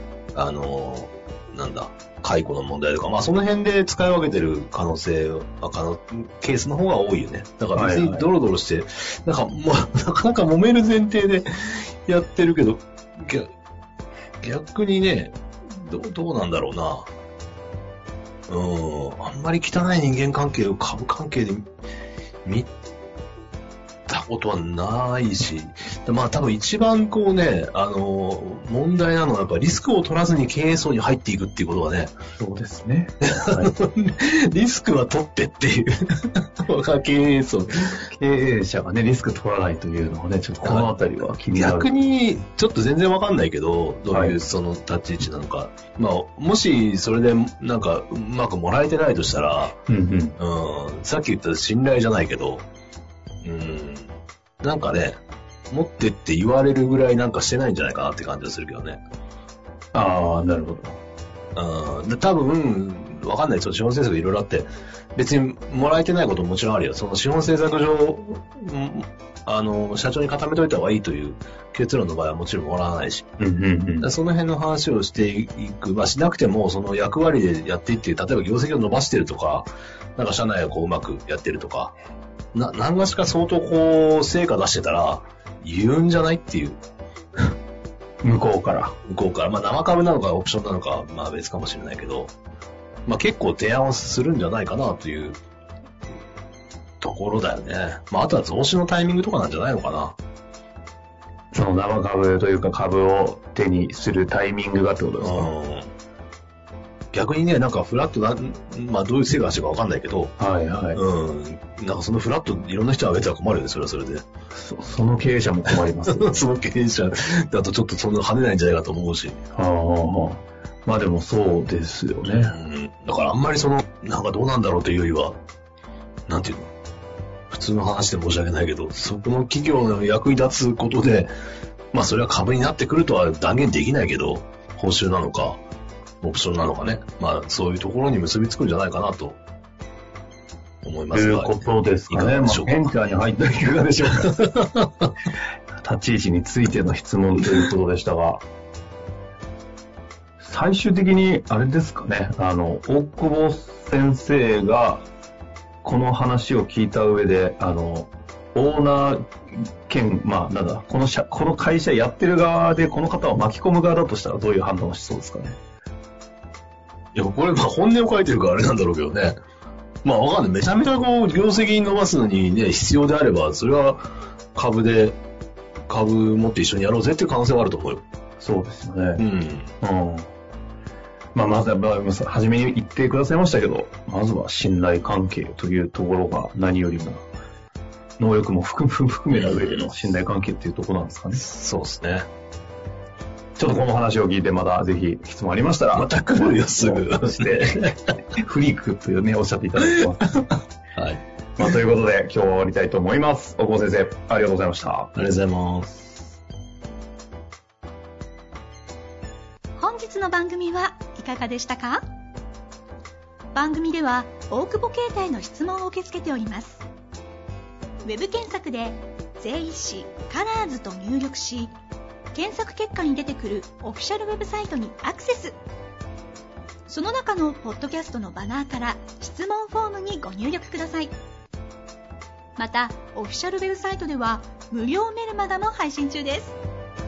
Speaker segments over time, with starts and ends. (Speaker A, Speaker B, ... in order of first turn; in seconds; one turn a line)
Speaker A: 0.3-13.5
Speaker B: 7.7-8.3
Speaker A: 14.4-17.1
Speaker A: 18.5-21.7
Speaker A: 22.4-22.7
Speaker A: 24.1-32.1
Speaker B: 32.4-33.7
Speaker A: 33.2-38.0
Speaker B: 38.1-41.9
Speaker A: 40.6-40.9
Speaker A: 41.5-49.8
Speaker B: 44.1-44.4
Speaker B: 49.9-50.4
Speaker A: 50.4-52.6
Speaker A: 53.4-59.0
Speaker B: 59.9-61.0
Speaker A: 61.5-73.3
Speaker B: 73.4-74.1
Speaker A: 74.0-81.9
Speaker A: 82.5-86.8
Speaker B: 88.2-88.9
Speaker A: 89.1-92.3
Speaker A: 93.1-95.4
Speaker A: 97.0-100.2
Speaker B: 101.5-105.5
Speaker A: 105.2-105.9
Speaker A: 107.1-110.4
Speaker B: 110.4-111.0
Speaker A: 110.9-114.2
Speaker B: 114.5-116.4
Speaker A: 115.7-119.4
Speaker B: 119.5-122.5
Speaker A: 122.2-125.4
Speaker A: 126.3-126.7
Speaker A: 127.5-131.3
Speaker A: 131.9-135.6
Speaker A: 136.2-139.4
Speaker A: 140.8-142.9
Speaker B: 141.1-144.4
Speaker A: 144.2-144.9
Speaker B: 145.8-148.4
Speaker B: 150.4-155.1
Speaker B: 155.8-165.6
Speaker A: 167.1-169.4
Speaker A: 170.0-175.2
Speaker A: 175.9-178.0
Speaker B: 178.4-179.2
Speaker A: 179.2-179.7
Speaker B: 179.8-180.3
Speaker B: 181.3-187.2
Speaker B: 188.2-191.4
Speaker A: 189.3-189.8
Speaker A: 191.4-192.3
Speaker B: 193.6-200.4
Speaker A: 195.9-198.0
Speaker A: 199.9-200.4
Speaker B: 201.6-205.1
Speaker A: 205.1-206.0
Speaker C: 209.8-212.0
Speaker C: 213.5-216.8
Speaker C: 218.0-221.7
Speaker C: 222.3-225.6
Speaker C: 226.9-231.1
Speaker C: 232.6-236.6